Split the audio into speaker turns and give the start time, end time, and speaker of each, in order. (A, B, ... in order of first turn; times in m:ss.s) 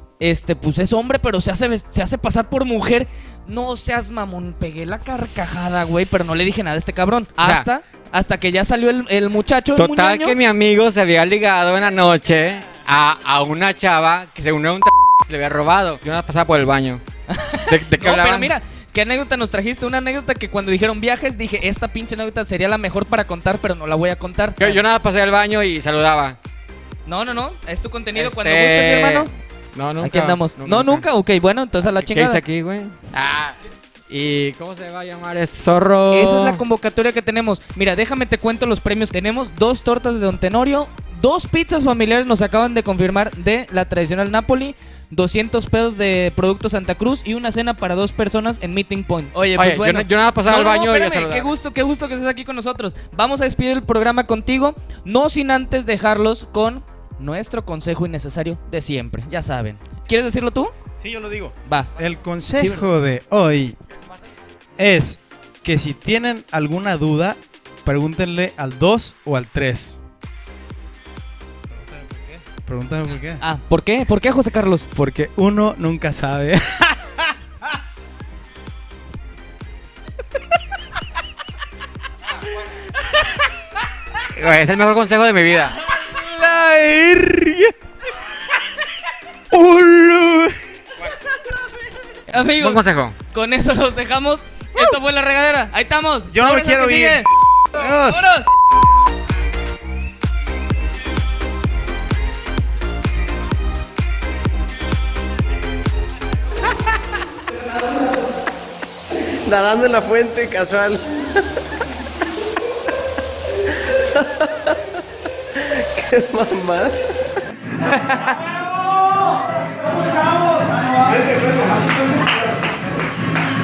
0:00.2-0:10.4 A
0:09.8-0:17.0 B
0:17.3-0:24.8 A
0:17.6-0:18.5 B
0:24.6-0:26.4 B
0:27.1-0:29.3 A
0:28.2-0:31.0 B
0:30.0-0:32.4 A
0:31.8-0:33.6 B
0:34.1-0:36.6 B
0:36.1-1:00.7 A
0:49.6-0:51.5 B
1:01.0-1:03.8 C
1:02.6-1:02.9 A
1:04.8-1:10.0 C
1:11.7-1:13.4 C
1:13.4-1:14.9 A
1:15.0-1:17.4 C
1:24.3-1:25.8 B
1:25.8-1:27.7 C
1:29.5-1:30.6 C
1:32.3-1:37.3 A
1:32.5-1:33.2 B
1:36.3-1:38.3 C
1:37.8-1:38.5 A
1:49.4-1:51.6 D
1:53.7-1:54.9 D
1:55.5-1:57.1 D
1:58.3-2:02.5 D